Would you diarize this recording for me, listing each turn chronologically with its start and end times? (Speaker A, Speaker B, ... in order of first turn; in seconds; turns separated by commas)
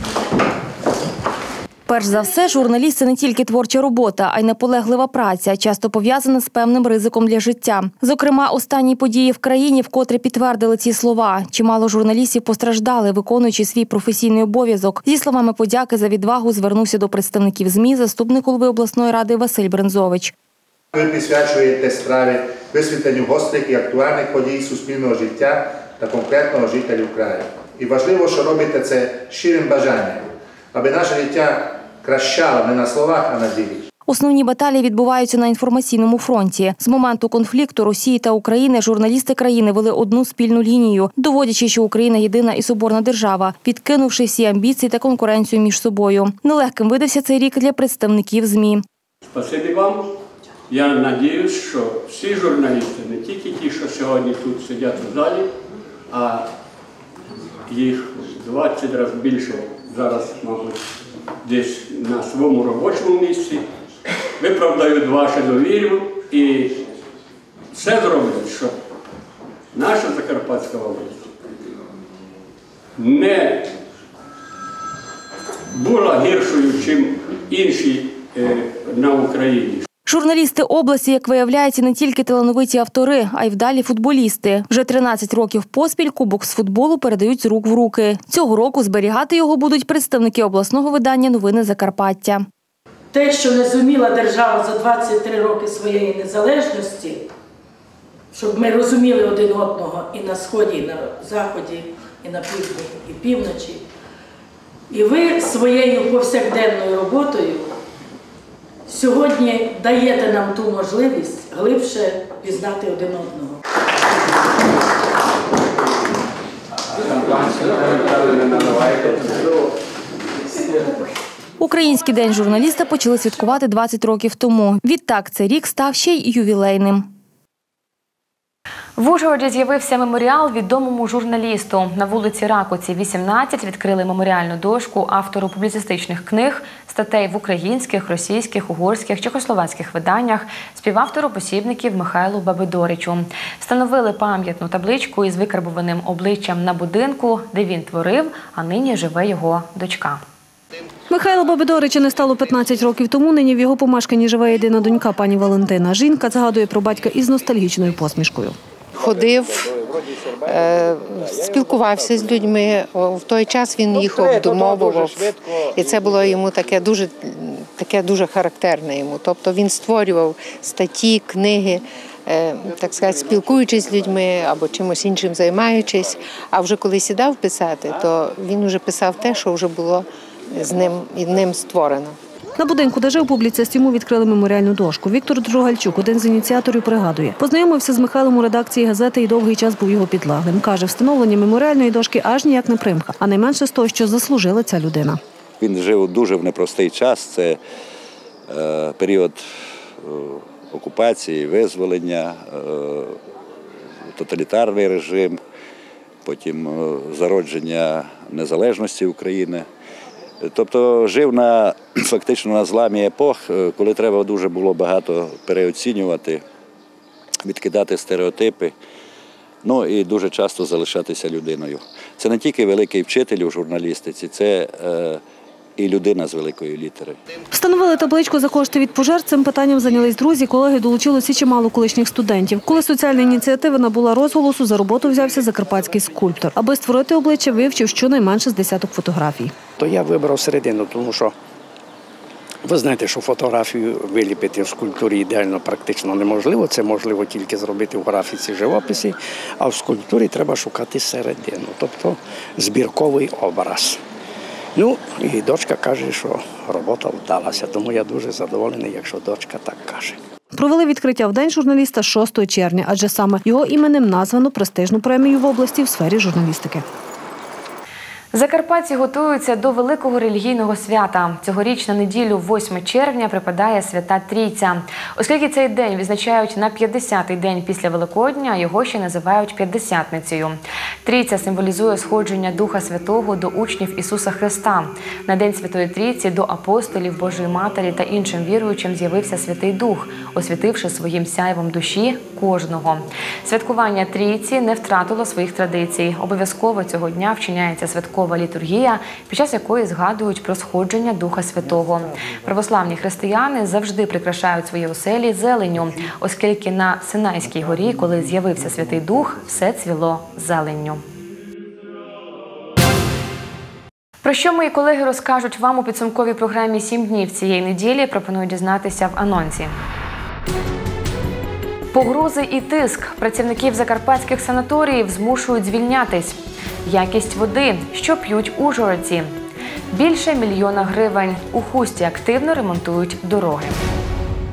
Speaker A: 1.9-20.3, Speaker B: 20.9-33.9, Speaker A: 34.1-48.8, Speaker C: 49.2-50.0, Speaker C: 50.7-55.5, Speaker C: 56.1-56.5, Speaker C: 57.7-60.9, Speaker C: 61.4-63.7, Speaker C: 64.4-66.8, Speaker C: 67.7-68.8, Speaker C: 69.7-71.4, Speaker C: 73.0-73.7, Speaker C: 75.7-79.9, Speaker A: 80.1-92.5, Speaker D: 93.1-97.3, Speaker D: 98.3-103.8, Speaker D: 104.9-107.8, Speaker D: 108.9-113.6, Speaker C: 117.1-119.4, Speaker A: 121.6-127.1, Speaker E: 129.0-150.2, Speaker F: 151.1-158.6, Speaker G: 158.9-159.8, Speaker G: 160.4-182.2, Speaker F: 182.6-195.2, Speaker H: 195.6-197.6, Speaker H: 198.5-199.4, Speaker H: 200.0-203.2, Speaker H: 204.1-205.4, Speaker H: 206.2-209.7, Speaker H: 210.4-216.4, Speaker H: 217.4-218.8, Speaker H: 219.6-225.2, Speaker H: 225.8-227.2, Speaker F: 227.5-239.5, Speaker I: 239.8-241.3, Speaker I: 242.6-254.0, Speaker I: 254.8-260.2, Speaker F: 260.5-266.9, Speaker E: 268.3-311.0, Speaker E: 314.2-319.7, Speaker E: 321.9-329.3, Speaker E: 329.9-333.8